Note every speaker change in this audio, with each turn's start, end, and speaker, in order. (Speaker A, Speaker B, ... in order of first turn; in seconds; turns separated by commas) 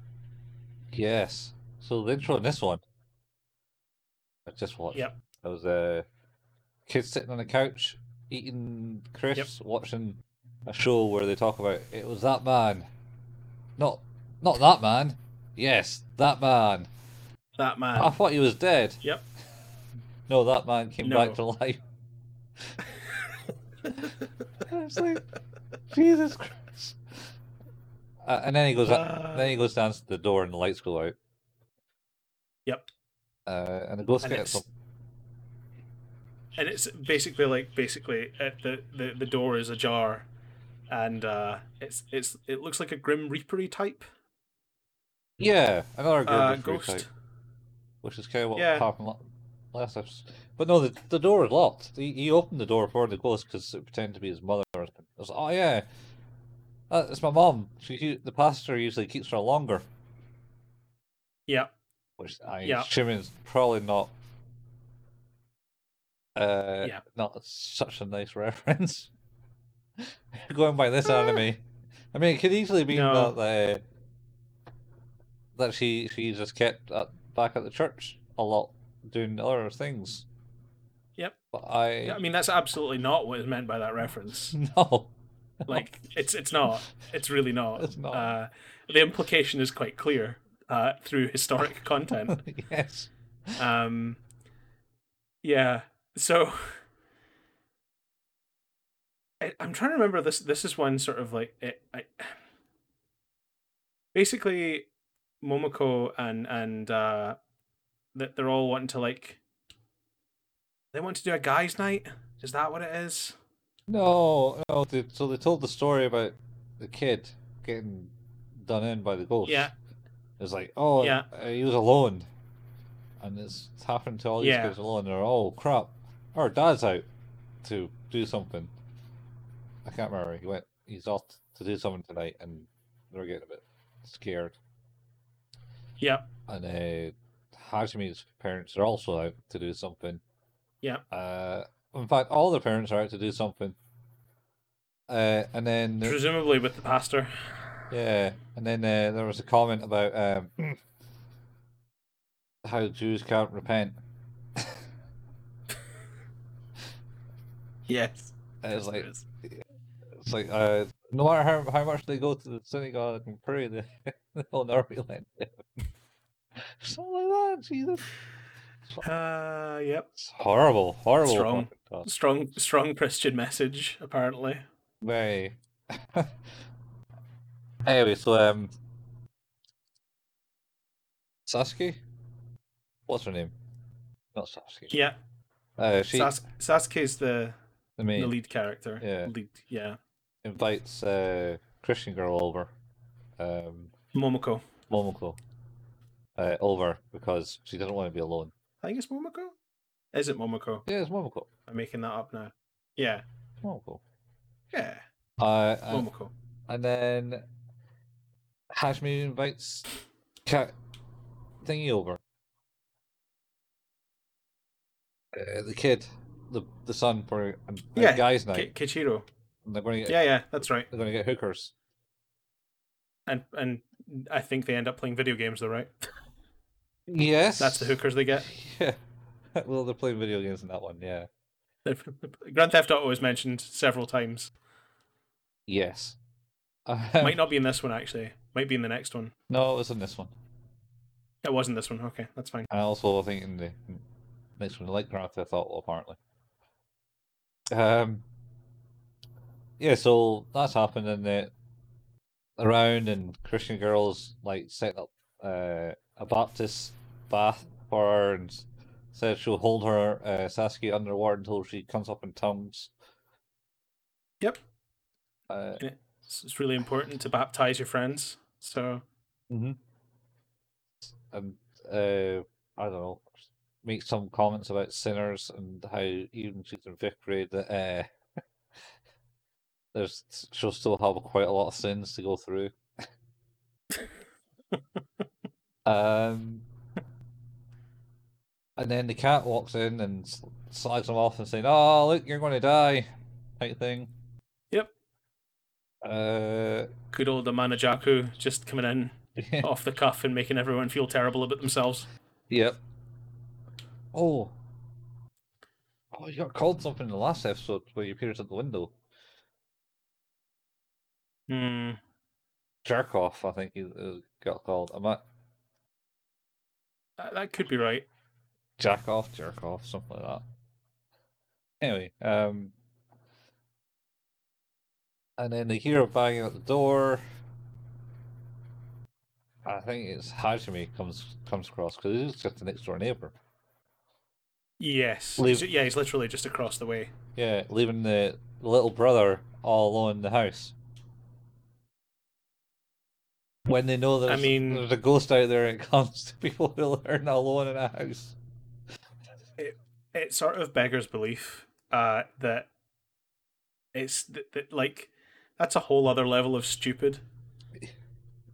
Speaker A: 0.9-2.8, Speaker A: 4.5-6.0, Speaker A: 6.9-12.9, Speaker A: 13.8-16.9, Speaker B: 17.6-18.1, Speaker A: 18.0-19.0, Speaker A: 20.3-21.8, Speaker B: 21.0-21.4, Speaker A: 24.6-25.2, Speaker A: 25.9-27.0, Speaker A: 28.2-31.1, Speaker B: 28.8-29.5, Speaker A: 33.5-34.6, Speaker B: 34.2-34.6, Speaker B: 36.5-40.3, Speaker B: 40.9-44.0, Speaker A: 45.4-47.1, Speaker B: 46.2-47.1, Speaker A: 48.0-55.9, Speaker B: 48.5-48.9, Speaker A: 56.9-59.9, Speaker A: 62.2-64.1, Speaker A: 66.3-69.1, Speaker A: 70.0-73.8, Speaker B: 72.9-73.3, Speaker A: 75.5-80.2, Speaker A: 81.5-82.2, Speaker B: 82.0-84.5, Speaker A: 84.5-85.1, Speaker B: 85.7-92.4, Speaker A: 87.8-88.3, Speaker A: 92.3-93.1, Speaker B: 93.6-94.2, Speaker B: 95.4-96.8, Speaker B: 99.4-102.3, Speaker B: 104.1-104.9, Speaker B: 105.4-107.4, Speaker B: 108.1-109.4, Speaker B: 110.9-113.4, Speaker A: 113.9-119.7, Speaker B: 119.4-119.7, Speaker A: 120.4-122.3, Speaker B: 121.0-121.2, Speaker A: 123.2-127.0, Speaker B: 124.4-124.8, Speaker A: 127.6-128.7, Speaker A: 129.8-134.6, Speaker B: 136.0-136.3, Speaker A: 136.5-140.2, Speaker A: 141.1-143.8, Speaker A: 145.1-146.2, Speaker B: 146.0-147.6, Speaker A: 147.9-150.8, Speaker A: 152.6-154.0, Speaker B: 157.9-159.2, Speaker A: 158.6-159.6, Speaker A: 160.2-165.8, Speaker A: 166.6-168.1, Speaker B: 169.0-170.1, Speaker A: 170.2-172.1, Speaker B: 171.2-174.6, Speaker A: 175.0-176.3, Speaker A: 177.8-178.7, Speaker A: 181.5-182.0, Speaker A: 183.1-183.5, Speaker A: 184.3-185.0, Speaker B: 184.9-185.2, Speaker A: 185.8-186.4, Speaker B: 186.1-187.6, Speaker A: 188.0-188.3, Speaker B: 188.2-190.0, Speaker A: 189.0-189.3, Speaker A: 190.4-192.7, Speaker A: 193.4-193.9, Speaker B: 194.1-194.6, Speaker A: 194.9-195.4, Speaker A: 196.3-198.5, Speaker B: 198.8-199.5, Speaker B: 200.1-200.8, Speaker A: 200.8-201.5, Speaker B: 201.7-203.2, Speaker A: 203.6-204.0, Speaker B: 204.7-205.0, Speaker A: 205.4-206.1, Speaker B: 205.9-206.3, Speaker A: 206.7-207.4, Speaker A: 208.7-209.9, Speaker A: 210.4-210.7, Speaker A: 211.6-212.2, Speaker A: 215.3-218.7, Speaker B: 217.9-219.3, Speaker A: 219.7-221.7, Speaker B: 220.1-220.9, Speaker B: 223.3-225.9, Speaker A: 227.1-229.0, Speaker B: 227.6-228.5, Speaker A: 229.5-231.3, Speaker B: 231.8-234.5, Speaker A: 235.7-236.2, Speaker A: 236.9-237.4, Speaker B: 237.2-239.3, Speaker A: 239.5-240.3, Speaker B: 241.4-242.7, Speaker A: 242.7-244.0, Speaker A: 244.6-246.2, Speaker A: 247.7-248.2, Speaker A: 249.8-251.5, Speaker A: 252.6-262.9, Speaker A: 265.5-265.8, Speaker B: 265.8-269.0, Speaker A: 269.5-269.8, Speaker A: 271.1-278.1, Speaker A: 279.9-282.7, Speaker A: 285.9-286.6, Speaker A: 288.8-294.1, Speaker A: 296.0-296.9, Speaker B: 297.1-302.1, Speaker A: 299.4-299.7, Speaker A: 302.5-302.8, Speaker A: 304.1-304.5, Speaker A: 306.1-308.9, Speaker B: 311.5-312.0, Speaker A: 312.8-315.2, Speaker B: 317.2-318.1, Speaker A: 318.8-320.4, Speaker A: 321.8-322.7, Speaker A: 325.4-327.2, Speaker A: 329.6-333.3, Speaker B: 334.8-337.1, Speaker A: 335.4-335.7, Speaker A: 337.4-340.7, Speaker A: 343.7-348.4, Speaker B: 344.3-344.8, Speaker B: 349.6-352.7, Speaker B: 353.9-357.2